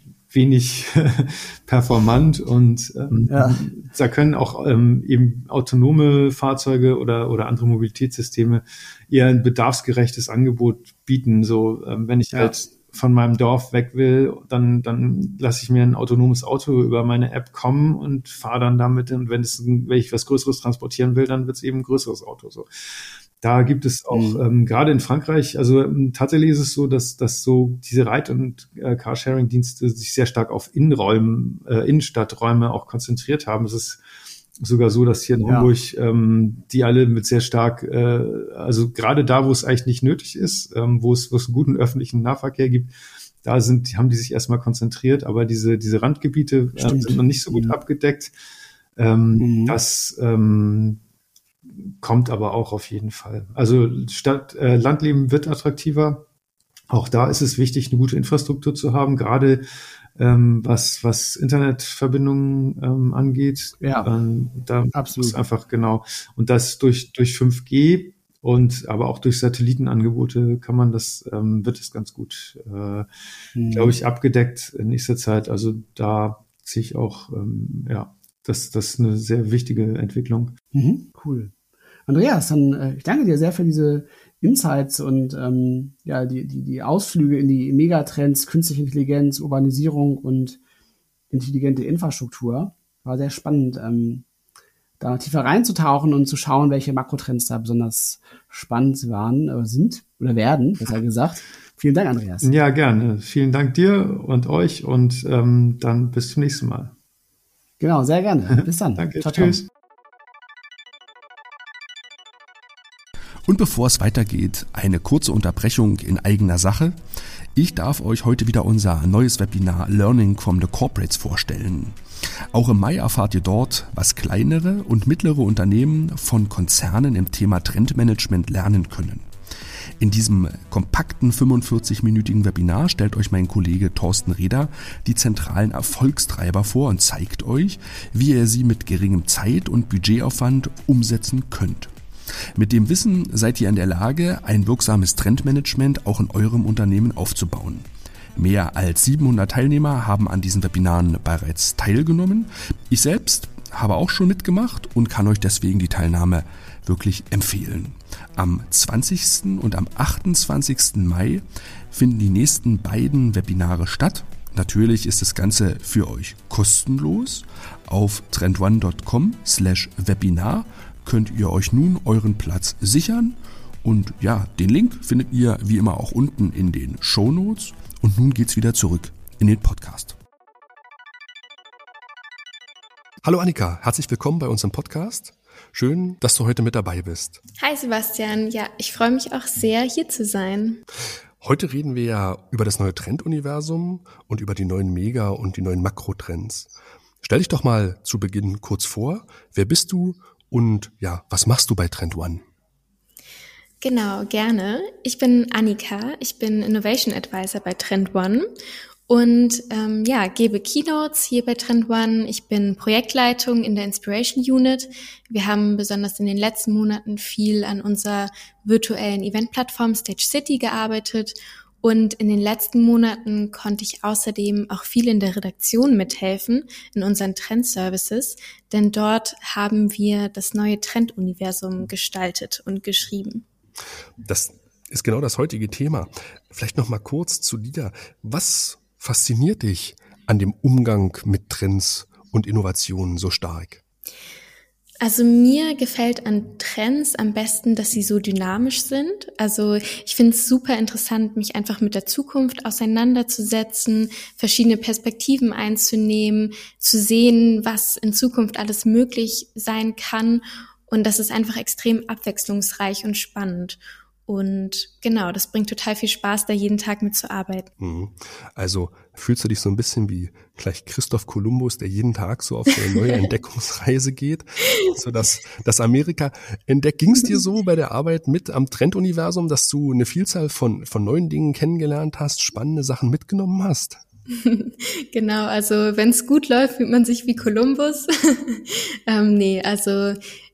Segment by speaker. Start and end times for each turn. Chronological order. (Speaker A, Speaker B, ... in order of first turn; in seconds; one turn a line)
Speaker A: 0.3-22.7
Speaker B: 3.3-3.6
Speaker A: 23.4-34.0
Speaker B: 24.1-24.4
Speaker A: 34.6-42.9
Speaker B: 35.4-35.7
Speaker A: 43.4-48.3
Speaker B: 46.8-47.8
Speaker A: 49.0-51.0
Speaker B: 49.4-49.8
Speaker A: 51.8-56.2
Speaker A: 56.9-59.6
Speaker A: 60.2-73.1
Speaker B: 63.8-64.1
Speaker B: 64.9-65.4
Speaker B: 73.5-74.0
Speaker A: 73.7-80.5
Speaker B: 80.7-81.5
Speaker B: 82.1-90.6
Speaker B: 91.3-94.2
Speaker B: 95.0-102.5
Speaker A: 102.4-106.9
Speaker B: 107.8-109.6
Speaker A: 109.0-109.7
Speaker C: 113.5-115.1
Speaker D: 113.5-116.9
Speaker C: 115.6-116.8
Speaker D: 117.6-121.9
Speaker C: 117.8-121.8
Speaker C: 122.5-129.2
Speaker D: 122.6-126.9
Speaker D: 127.6-129.2
Speaker C: 130.0-140.1
Speaker D: 130.0-141.9
Speaker C: 140.8-141.9
Speaker C: 142.6-147.7
Speaker D: 142.6-147.8
Speaker D: 148.4-161.4
Speaker C: 148.7-152.4
Speaker C: 153.0-153.3
Speaker C: 153.8-156.4
Speaker C: 157.0-157.9
Speaker C: 158.7-161.3
Speaker D: 161.9-180.1
Speaker C: 161.9-167.3
Speaker C: 167.9-170.5
Speaker C: 171.4-172.8
Speaker C: 174.2-180.1
Speaker C: 183.2-187.4
Speaker E: 187.6-190.8
Speaker C: 191.4-196.7
Speaker C: 197.2-202.4
Speaker E: 203.8-208.5
Speaker E: 209.1-233.4
Speaker C: 234.2-243.8
Speaker E: 245.0-267.7
Speaker C: 267.8-284.0
Speaker E: 284.3-290.2